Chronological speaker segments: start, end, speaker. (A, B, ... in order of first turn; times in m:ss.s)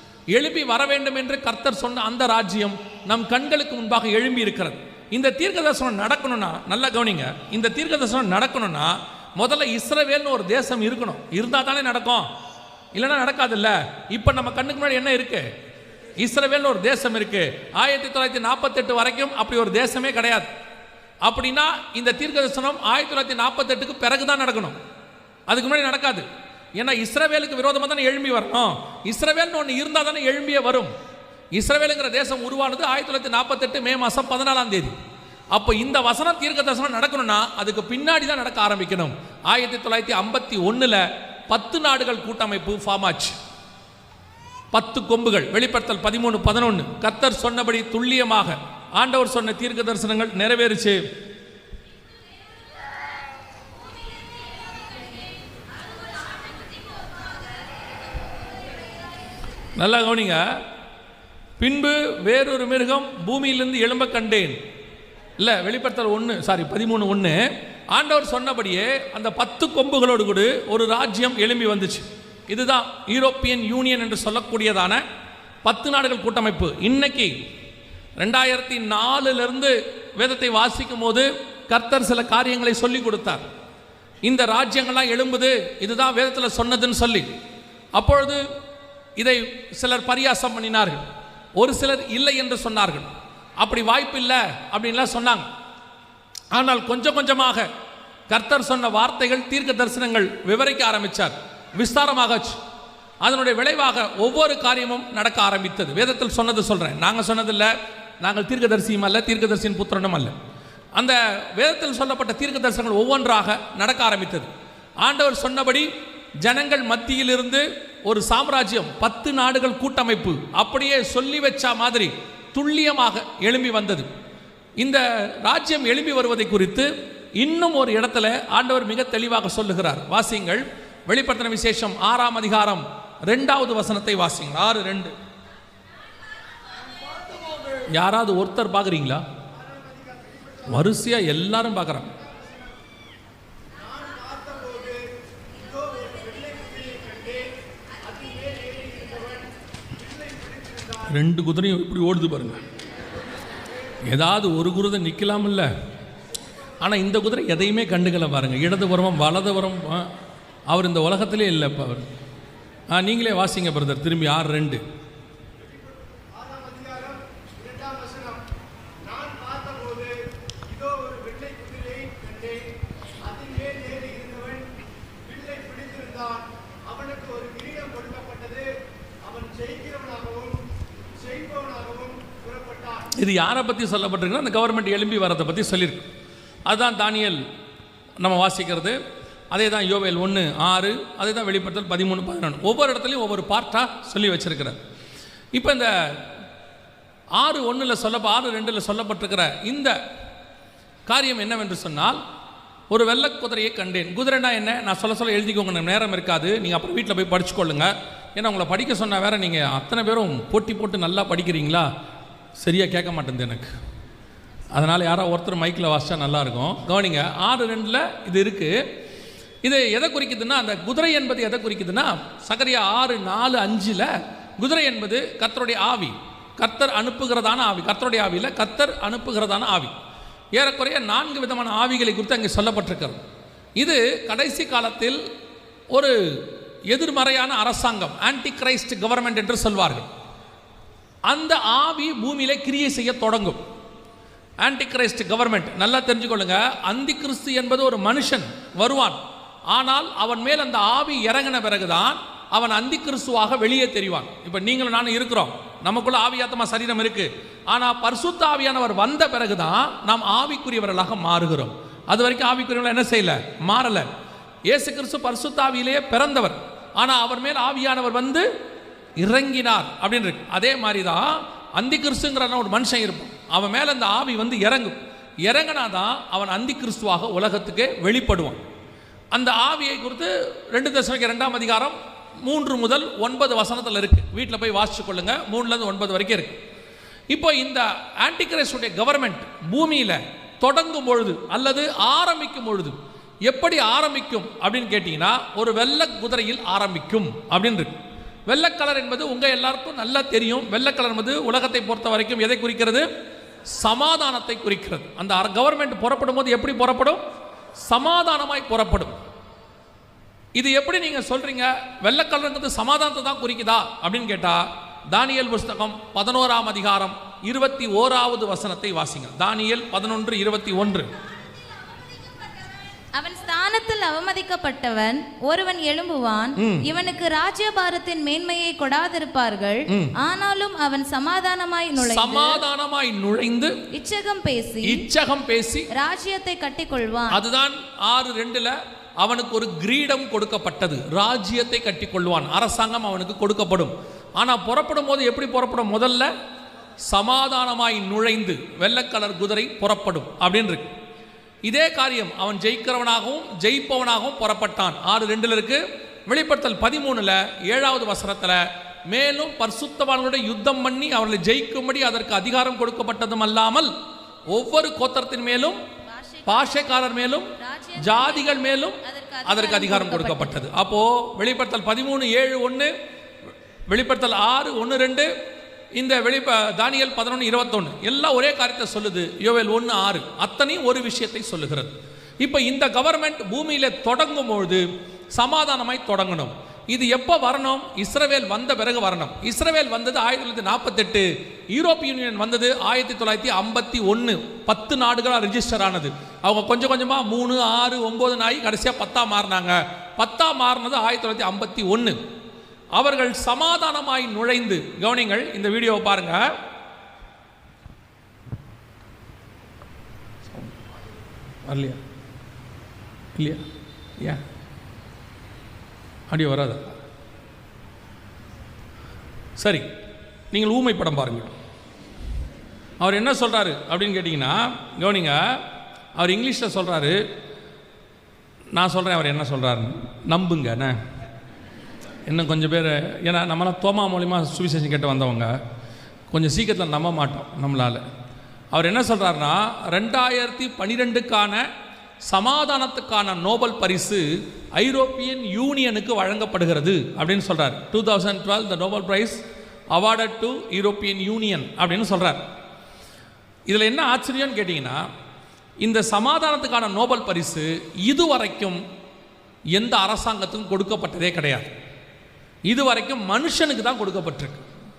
0:00.3-0:12.3 A
0:12.9-0:15.5 A
0:16.2-0:20.5 A
0:21.2-0:24.8 A
0:25.5-0:30.9 A
0:31.6-0:35.0 A
0:35.5-0:43.4 A
0:44.7-0:51.0 A
0:59.8-1:00.5 A
1:01.6-1:04.6 A
1:05.4-1:07.4 A
1:07.9-1:15.0 A
1:15.6-1:17.3 A
1:18.2-1:23.5 A
1:24.2-1:27.3 A
1:28.0-1:28.4 A
1:29.2-1:31.1 A
1:31.6-1:35.5 A
1:36.5-1:37.7 A
1:38.3-1:42.6 A
1:43.2-1:50.4 A
1:51.0-1:54.5 A
1:55.0-1:55.9 A
1:56.4-2:04.1 A
2:04.8-2:15.2 A
2:16.9-2:17.9 B
2:17.9-2:19.2 A
2:19.5-2:21.0 B
2:20.7-2:22.1 A
2:22.1-2:22.8 B
2:23.7-2:31.2 B
2:31.1-2:32.6 A
2:33.4-2:34.0 B
2:34.0-2:35.7 A
2:36.8-2:40.1 A
2:40.7-2:42.0 A
2:42.9-2:44.8 A
2:45.6-2:48.4 B
2:49.0-2:50.1 B
2:50.7-2:52.6 B
2:53.2-2:54.6 B
2:55.2-2:58.7 B
2:59.2-3:00.7 B
3:01.2-3:03.1 B
3:03.2-3:06.1 A
3:06.7-3:07.4 A
3:08.2-3:09.0 A
3:09.5-3:14.8 A
3:15.6-3:16.2 A
3:17.4-3:20.0 A
3:21.1-3:22.2 A
3:22.9-3:31.9 A
3:32.6-3:33.7 A
3:34.7-3:38.8 A
3:39.6-3:50.0 A
3:50.6-3:53.2 A
3:53.8-3:55.2 A
3:55.9-4:00.1 A
4:01.3-4:03.6 A
4:04.6-4:09.2 A
4:09.7-4:24.1 A
4:24.7-4:28.5 A
4:29.2-4:38.6 A
4:39.3-4:46.6 A
4:47.3-4:58.0 A
4:58.5-5:03.1 A
5:03.7-5:07.2 A
5:07.8-5:09.1 A
5:10.6-5:21.1 A
5:23.2-5:32.6 C
5:26.6-5:26.8 A
5:29.9-5:30.1 A
5:32.0-5:33.8 A
5:33.9-5:35.0 C
5:34.8-5:35.9 A
5:35.9-5:37.4 C
5:37.3-5:46.3 A
5:47.0-5:50.9 A
5:51.6-6:03.9 A
6:04.5-6:05.8 A
6:06.1-6:06.9 C
6:06.5-6:12.9 A
6:07.6-6:10.6 C
6:13.9-6:15.3 A
6:16.0-6:42.2 A
6:43.0-6:46.5 A
6:50.5-6:50.8 A
6:51.7-6:52.0 A
6:53.4-6:53.7 A
6:56.3-6:56.9 A
6:59.6-6:59.9 A
7:00.5-7:01.5 A
7:03.0-7:05.6 A
7:06.2-7:07.2 A
7:08.7-7:11.0 A
7:12.3-7:15.5 A
7:16.3-7:18.0 A
7:18.7-7:21.7 A
7:22.2-7:29.4 A
7:29.9-7:32.4 A
7:33.7-7:35.0 A
7:35.8-7:38.8 A
7:39.7-7:41.7 A
7:42.7-7:44.7 A